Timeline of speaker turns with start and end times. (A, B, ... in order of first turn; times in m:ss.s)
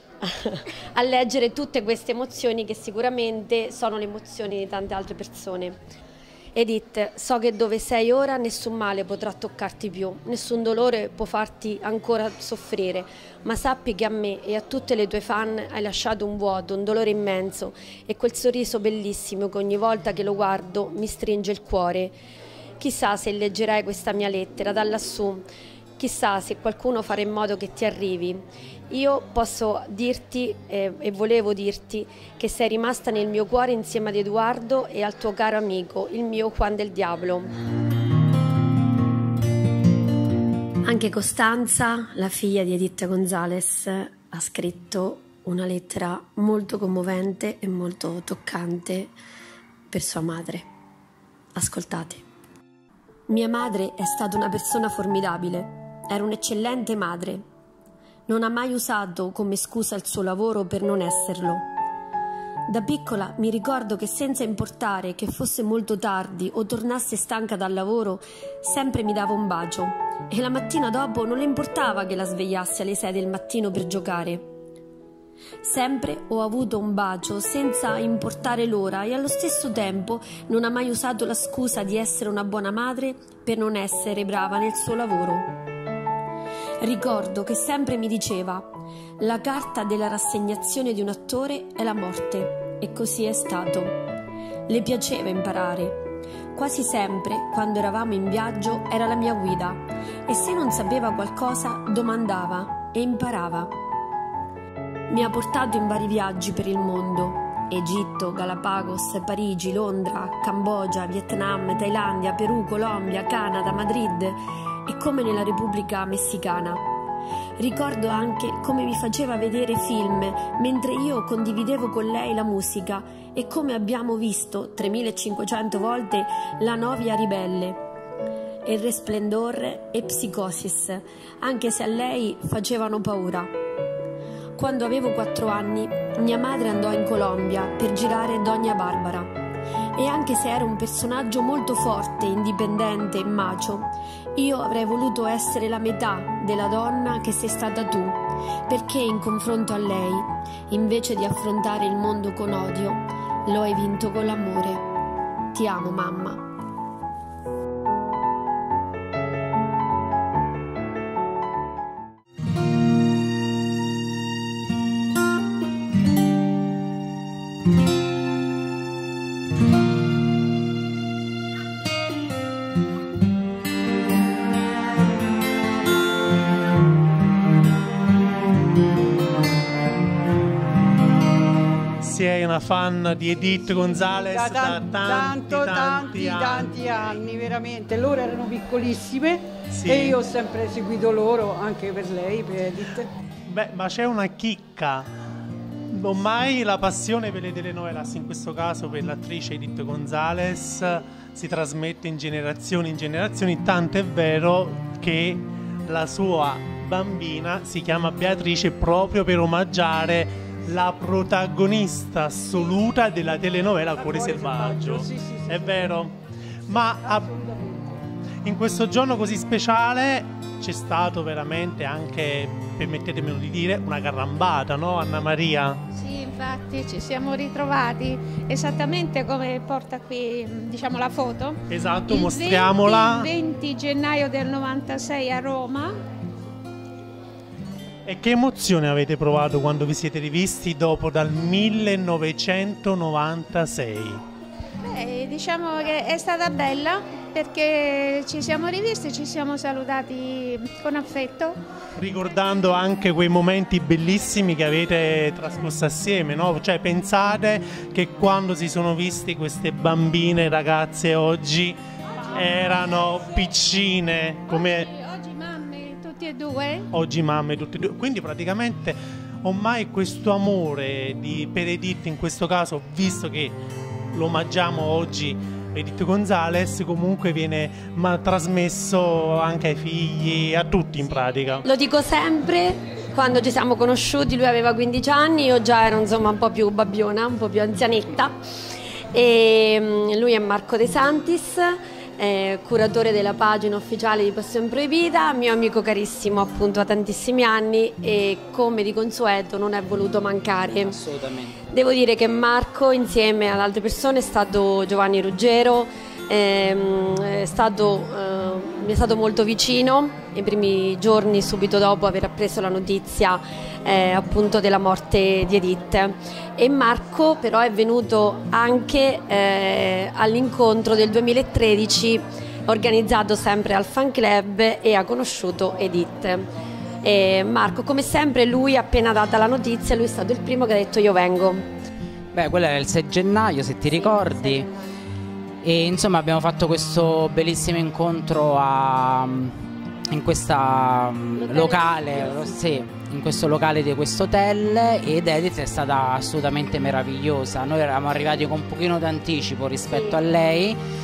0:00.2-0:05.8 A
0:06.6-0:22.2 A
0:22.8-0:25.4 A
0:26.0-0:37.5 A
0:40.8-0:49.1 A
0:49.9-0:50.7 A
0:51.6-0:52.2 A
0:53.3-0:57.4 A
0:58.3-1:01.7 A
1:02.7-1:14.5 A
1:15.6-1:25.5 A
1:26.8-1:34.0 A
1:34.7-1:36.0 A
1:36.5-1:43.7 A
1:45.1-1:56.8 A
1:57.6-2:07.8 A
2:08.6-2:13.5 A
2:14.6-2:19.3 A
2:20.0-2:34.8 A
2:35.5-2:36.4 A
3:02.0-3:07.2 B
3:04.3-3:13.1 C
3:09.7-3:10.2 B
3:13.5-3:15.1 B
3:15.9-3:37.3 B
3:33.9-3:36.0 C
3:36.7-3:37.9 C
3:38.4-3:45.8 B
3:45.9-3:56.0 D
3:51.7-3:53.3 B
3:58.1-4:04.2 B
4:04.8-4:11.6 D
4:12.0-4:24.9 B
4:24.5-4:26.9 D
4:26.9-4:33.6 B
4:34.1-4:41.6 B
4:41.6-4:48.4 A
4:49.1-5:01.0 A
5:00.8-5:01.6 E
5:01.7-5:26.5 A
5:27.0-5:31.7 A
5:32.3-5:34.7 E
5:33.9-5:34.8 A
5:35.6-5:50.8 E
5:41.4-5:42.6 A
5:49.9-5:50.2 A